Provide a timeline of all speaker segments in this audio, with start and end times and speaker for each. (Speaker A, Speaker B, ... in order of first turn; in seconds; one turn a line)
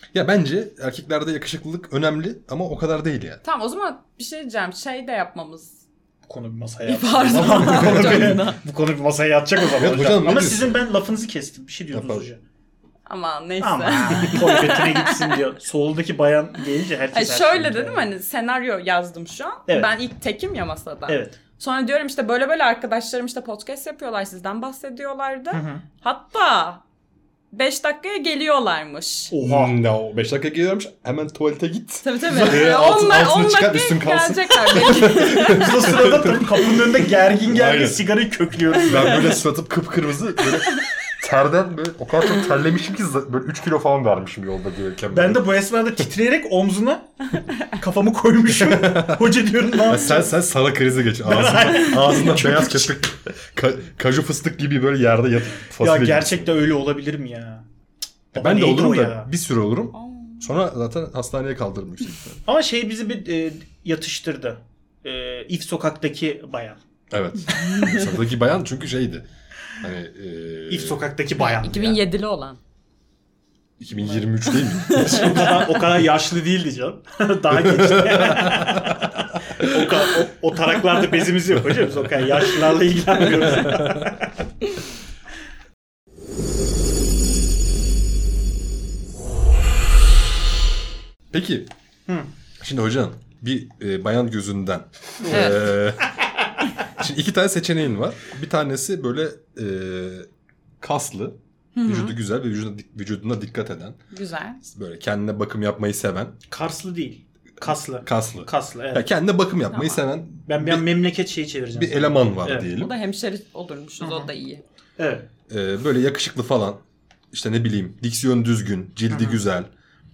Speaker A: 0.1-3.4
Speaker B: 3.4-5.8
Speaker C: 6.3-12.4
Speaker B: 6.9-8.6
Speaker A: 7.3-8.4
Speaker A: 9.8-10.8
Speaker A: 11.9-12.2
Speaker B: 13.1-15.4
Speaker C: 13.6-18.1
Speaker B: 17.1-26.8
Speaker C: 21.1-21.4
Speaker C: 25.5-25.8
Speaker B: 27.5-29.3
Speaker C: 29.3-29.8
Speaker A: 29.4-38.0
Speaker B: 32.0-35.9
Speaker C: 35.3-39.4
Speaker A: 38.8-45.5
Speaker C: 45.1-47.1
Speaker C: 47.6-50.3
Speaker A: 48.5-56.5
Speaker C: 51.2-53.0
Speaker C: 55.8-57.6
Speaker C: 58.3-59.3
Speaker A: 58.4-62.4
Speaker B: 60.0-60.4
Speaker C: 62.5-66.8
Speaker A: 67.1-69.3
Speaker B: 67.7-67.9
Speaker A: 69.8-71.0
Speaker C: 70.7-72.0
Speaker B: 71.4-72.6
Speaker A: 73.8-75.8
Speaker B: 74.8-75.3
Speaker C: 74.9-84.3
Speaker A: 77.5-79.0
Speaker A: 79.6-79.9
Speaker A: 83.5-84.1
Speaker A: 91.3-91.7
Speaker A: 92.6-96.0
Speaker C: 95.3-95.5
Speaker B: 95.3-95.6
Speaker A: 97.0-100.3
Speaker A: 100.8-104.0
Speaker B: 101.8-102.1
Speaker B: 104.1-104.6
Speaker A: 104.6-106.3
Speaker C: 106.5-109.1
Speaker A: 108.0-110.9
Speaker B: 109.7-110.0
Speaker C: 110.5-112.7
Speaker A: 111.7-112.9
Speaker B: 112.7-114.6
Speaker C: 114.0-114.3
Speaker C: 115.0-115.3
Speaker A: 115.5-116.8
Speaker A: 117.3-119.7
Speaker C: 119.1-119.4